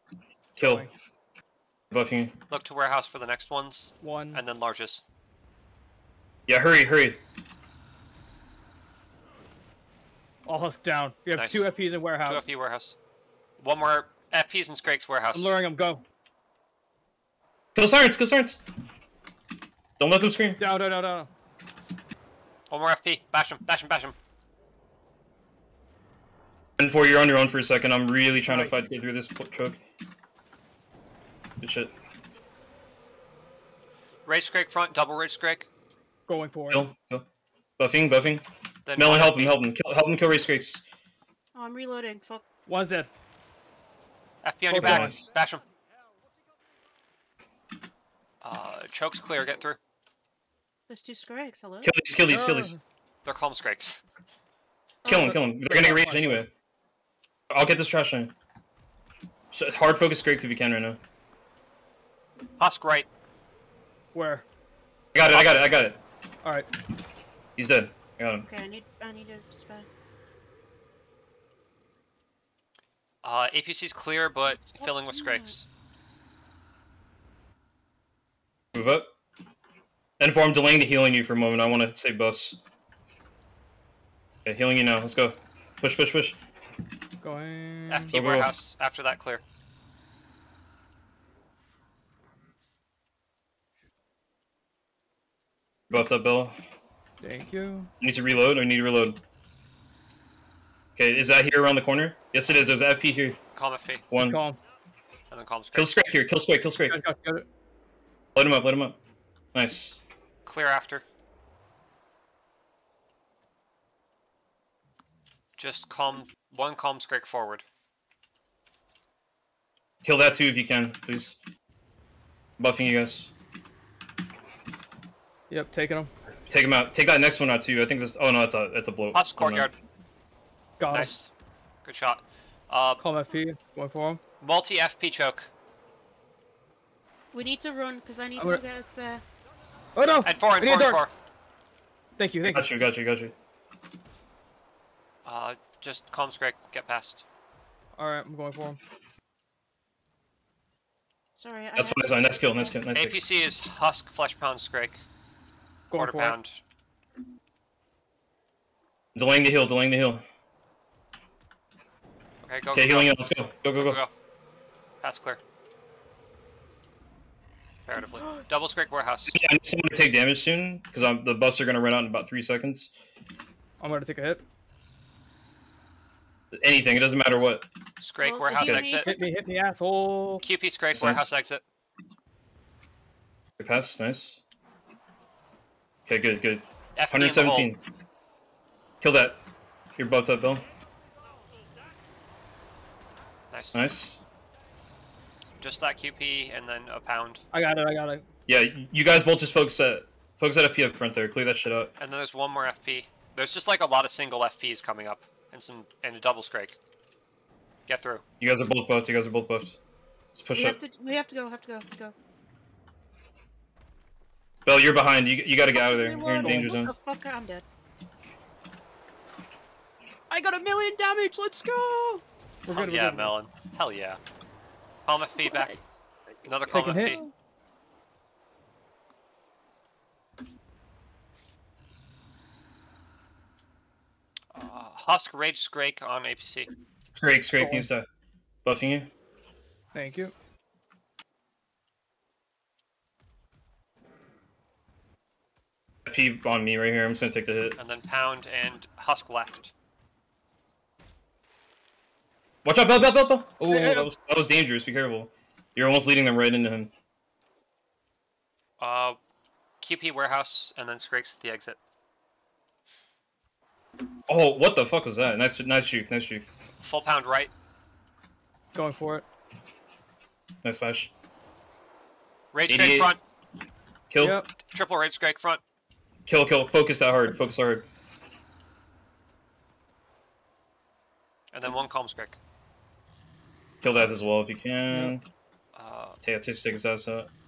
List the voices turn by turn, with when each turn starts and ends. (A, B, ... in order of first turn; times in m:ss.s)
0:00.6-0:00.9 A
0:00.6-0:00.9 B
0:01.9-0:02.4 A
0:02.5-0:05.0 C
0:04.0-0:04.4 B
0:06.5-0:07.2 A
0:10.5-0:12.4 B
0:11.4-0:13.0 C
0:13.6-0:15.5 C
0:15.3-0:16.0 B
0:17.8-0:18.6 A
0:20.0-0:20.6 A
0:20.6-0:21.3 B
0:22.7-0:24.2 C
0:26.8-0:29.8 A
0:28.5-0:28.8 B
0:31.6-0:31.9 A
0:34.3-0:35.7 C
0:36.3-0:36.9 B
0:36.7-0:37.3 A
0:37.8-0:38.4 A
0:38.9-0:39.6 C
0:39.0-0:40.8 A
0:41.6-0:42.4 D
0:42.7-0:43.1 B
0:44.4-0:45.6 C
0:44.7-0:45.2 B
0:44.8-0:45.3 A
0:48.4-0:49.8 C
0:50.9-0:51.9 D
0:51.8-0:52.8 A
0:52.3-0:52.8 B
0:53.2-0:54.0 C
0:55.0-0:56.5 A
0:55.1-0:55.3 D
0:55.1-0:56.5 B
0:57.5-0:58.3 A
0:59.5-1:01.0 A
1:02.6-1:03.1 C
1:04.1-1:04.4 B
1:05.1-1:06.0 A
1:05.3-1:05.6 C
1:06.4-1:06.7 B
1:07.6-1:08.5 A
1:08.4-1:09.9 D
1:13.2-1:15.7 C
1:14.5-1:15.5 D
1:18.7-1:19.1 A
1:20.2-1:22.6 A
1:24.4-1:26.4 A
1:27.2-1:28.1 B
1:27.9-1:29.4 C
1:28.1-1:28.6 A
1:35.9-1:36.6 A
1:37.2-1:37.9 B
1:38.0-1:39.2 A
1:41.0-1:43.4 A
1:43.6-1:44.0 C
1:44.1-1:44.4 A
1:44.2-1:44.6 B
1:45.3-1:46.0 C
1:45.7-1:47.0 A
1:46.9-1:47.5 B
1:48.4-1:49.0 A
1:49.5-1:50.0 A
1:50.5-1:51.0 C
1:55.6-1:57.6 C
2:00.0-2:01.4 A
2:02.6-2:03.3 A
2:05.5-2:06.1 B
2:06.5-2:09.7 A
2:09.1-2:09.7 C
2:10.8-2:11.1 B
2:10.9-2:11.3 C
2:11.8-2:13.0 C
2:13.0-2:14.2 B
2:14.4-2:15.5 C
2:17.3-2:19.2 D
2:18.4-2:18.6 B
2:20.0-2:21.0 B
2:20.2-2:21.1 C
2:22.2-2:22.7 B
2:22.4-2:23.4 A
2:25.2-2:27.2 C
2:28.0-2:28.8 B
2:31.4-2:32.1 D
2:31.8-2:33.2 A
2:32.9-2:35.0 C
2:35.9-2:36.4 B
2:35.9-2:36.6 C
2:39.2-2:40.2 A
2:42.4-2:44.1 C
2:42.7-2:44.0 A
2:45.0-2:45.4 C
2:47.9-2:49.4 C
2:49.3-2:52.9 A
2:53.8-2:54.4 B
2:56.5-2:57.7 A
2:58.0-2:59.1 C
2:58.2-2:59.3 D
2:59.0-3:00.4 B
3:00.4-3:01.6 C
3:00.9-3:01.3 A
3:03.6-3:04.4 A
3:06.1-3:07.8 A
3:07.0-3:07.7 C
3:09.0-3:09.4 A
3:10.0-3:10.7 A
3:13.5-3:13.9 C
3:13.7-3:14.2 A
3:15.6-3:17.4 C
3:17.5-3:18.3 B
3:18.5-3:21.9 A
3:22.0-3:26.8 C
3:27.9-3:28.2 C
3:28.4-3:29.8 A
3:30.4-3:30.8 A
3:30.6-3:32.2 D
3:34.7-3:36.9 A
3:35.7-3:37.6 D
3:36.4-3:36.7 B
3:40.3-3:42.2 D
3:42.7-3:43.4 B
3:42.7-3:44.2 C
3:45.1-3:45.7 C
3:45.4-3:47.3 D
3:46.4-3:47.2 C
3:46.7-3:47.2 B
3:54.5-3:56.7 C
3:57.2-3:58.1 A
3:57.6-3:57.9 B
3:58.6-3:59.1 A
3:59.9-4:00.3 B
4:06.1-4:07.8 A
4:07.8-4:09.7 C
4:12.6-4:16.9 A
4:13.7-4:14.1 B
4:18.8-4:19.2 C
4:19.8-4:21.8 C
4:24.3-4:26.4 A
4:26.8-4:27.5 C
4:28.7-4:29.2 B
4:30.6-4:31.1 A
4:32.5-4:33.2 C
4:32.7-4:33.2 A
4:34.1-4:34.4 A
4:34.2-4:34.5 B
4:34.7-4:35.6 C
4:36.3-4:37.9 A
4:41.5-4:42.4 C
4:43.8-4:45.2 A
4:45.8-4:46.2 C
4:46.2-4:47.3 A